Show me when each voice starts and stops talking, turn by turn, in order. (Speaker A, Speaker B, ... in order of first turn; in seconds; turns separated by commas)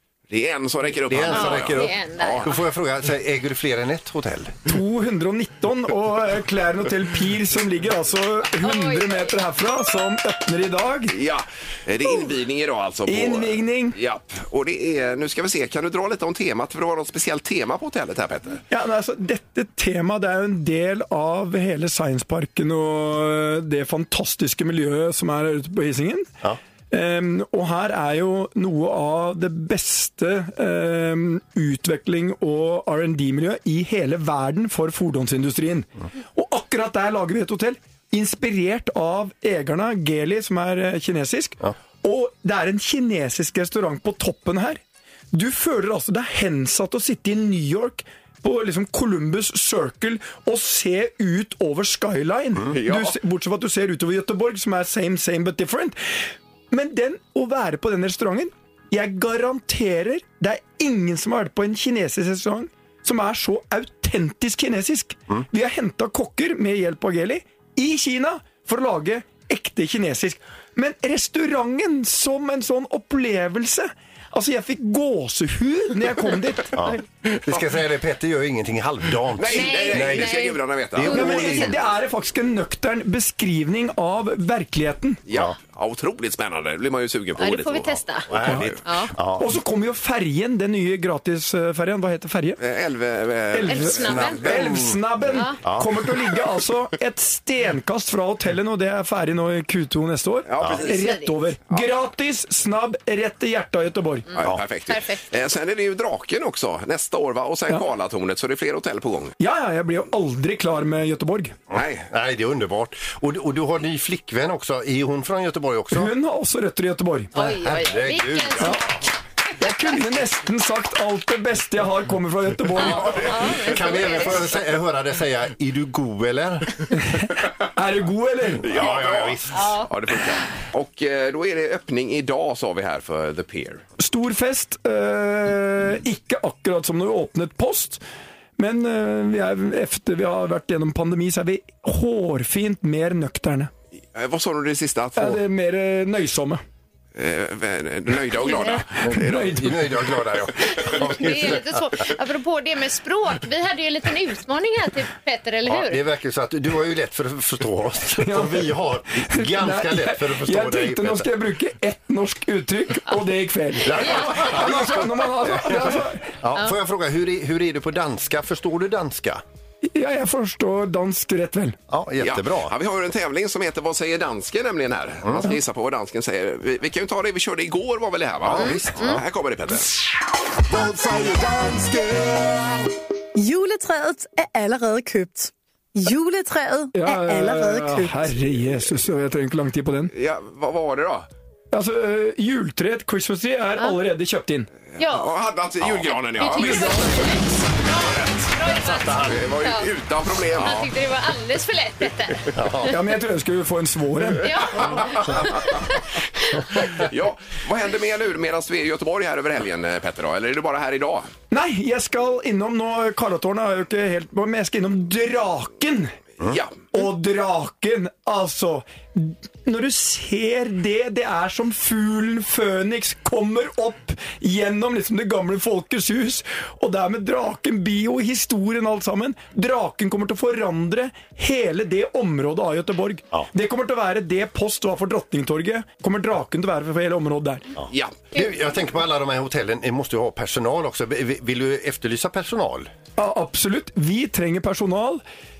Speaker A: 0.3-2.5, Speaker B: 1.1-4.6, Speaker C: 1.3-2.6, Speaker D: 4.7-11.1, Speaker C: 8.6-9.4, Speaker A: 11.1-18.6, Speaker D: 13.1-14.0, Speaker D: 18.7-26.3, Speaker D: 26.9-44.8, Speaker D: 45.3-56.0, Speaker A: 52.7-53.2, Speaker D: 56.7-76.8, Speaker B: 76.7-81.7, Speaker A: 77.3-77.7, Speaker A: 79.4-81.7, Speaker C: 79.5-81.7, Speaker D: 81.0-85.2, Speaker A: 85.3-88.8, Speaker B: 85.3-85.5, Speaker C: 87.4-88.3, Speaker B: 88.3-89.5, Speaker C: 88.8-89.1, Speaker D: 89.4-92.6, Speaker A: 92.6-94.4, Speaker D: 93.5-104.3, Speaker C: 93.7-94.7, Speaker B: 94.0-95.0, Speaker C: 95.3-95.6, Speaker B: 95.6-96.0, Speaker A: 100.5-101.0, Speaker B: 100.6-100.9, Speaker C: 100.8-101.3, Speaker C: 104.3-105.3, Speaker A: 104.3-109.3, Speaker D: 109.4-111.6, Speaker B: 111.7-116.1, Speaker A: 111.7-112.0, Speaker D: 115.9-117.3, Speaker C: 117.3-119.0, Speaker B: 117.4-118.8, Speaker D: 119.6-123.3, Speaker B: 123.0-126.9, Speaker A: 123.0-123.5, Speaker C: 123.1-124.6, Speaker D: 127.0-128.7, Speaker A: 128.6-133.8, Speaker B: 128.7-129.8, Speaker C: 129.6-129.9, Speaker D: 134.0-138.0, Speaker D: 138.6-143.7, Speaker A: 144.1-145.4, Speaker D: 145.2-146.6, Speaker A: 147.2-149.5, Speaker C: 148.4-148.8, Speaker B: 149.0-151.8, Speaker D: 149.1-149.8, Speaker C: 150.7-156.0, Speaker B: 155.7-161.3, Speaker D: 158.2-166.3, Speaker B: 163.8-169.4, Speaker C: 164.0-164.3, Speaker D: 169.9-171.8, Speaker B: 171.9-172.7, Speaker A: 172.2-179.9, Speaker B: 175.2-175.6, Speaker B: 178.4-179.2, Speaker C: 178.6-179.2, Speaker E: 180.7-182.8, Speaker F: 183.3-188.4, Speaker D: 186.9-190.1, Speaker A: 190.1-191.3, Speaker D: 191.7-194.7, Speaker A: 195.0-198.4, Speaker C: 195.0-195.3, Speaker C: 196.3-199.9, Speaker D: 196.6-197.3, Speaker B: 198.7-199.5, Speaker A: 199.2-200.9, Speaker C: 200.6-202.9, Speaker B: 202.5-202.9, Speaker D: 202.9-204.5, Speaker C: 204.4-205.7, Speaker A: 204.7-205.8, Speaker B: 205.0-205.4, Speaker A: 206.9-211.3, Speaker D: 211.5-216.2, Speaker A: 216.4-216.7, Speaker D: 216.9-237.7, Speaker B: 237.8-242.9, Speaker A: 237.9-238.3, Speaker D: 243.2-245.2